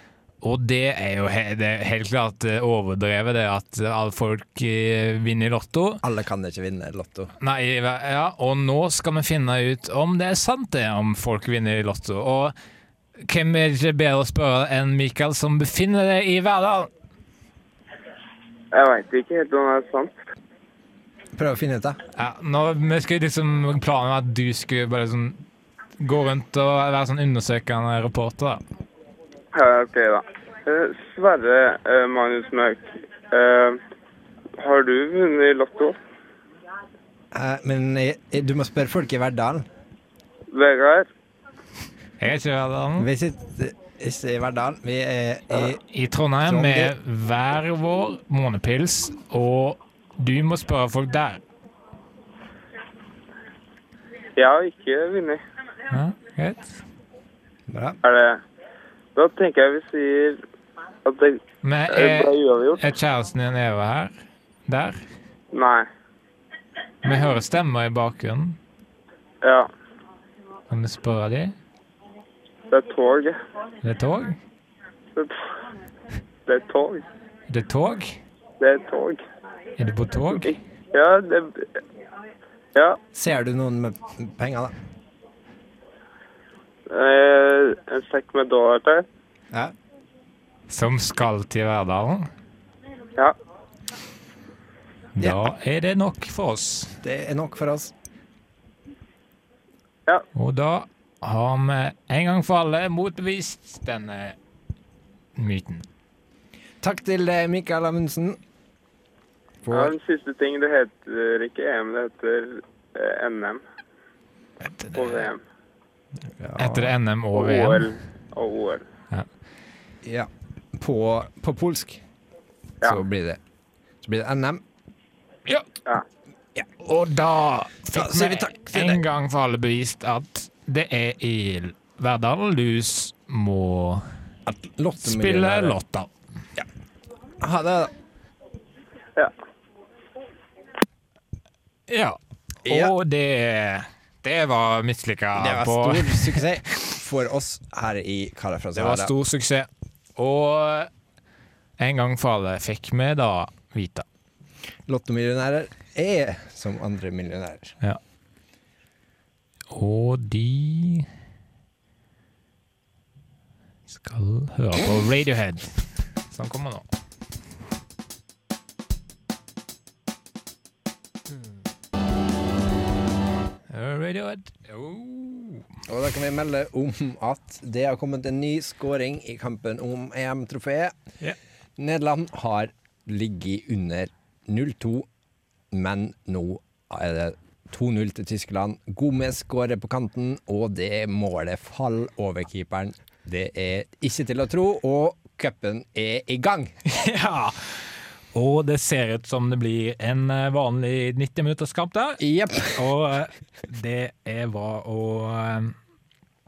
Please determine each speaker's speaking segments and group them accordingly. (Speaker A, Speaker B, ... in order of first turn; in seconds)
Speaker A: 0.4-6.0, 7.4-12.6, 13.2-16.9, 22.1-25.4, 26.0-28.6, 42.2-43.1, 45.9-51.4, 55.9-56.8, 61.6-64.1, 64.7-65.0, 67.0-68.6, 70.7-71.6, 73.8-74.4, 77.5-78.2, 79.8-80.5, 90.7-92.3, 95.2-97.0, 100.3-104.4, 105.4-105.9, 114.6-115.3, 116.6-118.0, 126.8-134.1, 135.0-136.1, 141.9-146.9, 148.8-150.9, 151.8-154.1, 159.7-161.1, 163.9-166.9, 173.7-175.7, 196.9-205.8
Speaker B: 6.0-7.3, 21.4-22.0, 37.3-39.6, 43.0-45.8, 46.5-46.9, 57.7-58.0, 83.1-84.8, 97.0-97.9, 106.8-108.4, 109.6-110.0, 116.4-116.9, 120.0-122.0, 122.8-123.4, 124.0-124.6, 127.9-129.0, 134.5-135.8, 137.4-137.9, 142.7-143.0, 145.3-149.1, 154.9-157.8, 175.9-181.0, 181.8-185.1, 185.7-196.8, 202.2-202.9
Speaker C: 18.7-20.1, 29.5-33.8, 34.6-36.0, 40.5-41.1, 54.4-55.4, 58.0-58.4, 59.1-60.4, 61.0-62.8, 65.5-65.9, 69.4-69.7, 72.7-73.4, 76.5-77.1, 78.6-79.2, 80.4-81.8, 86.9-89.1, 109.7-113.6, 114.9-115.4, 117.3-118.8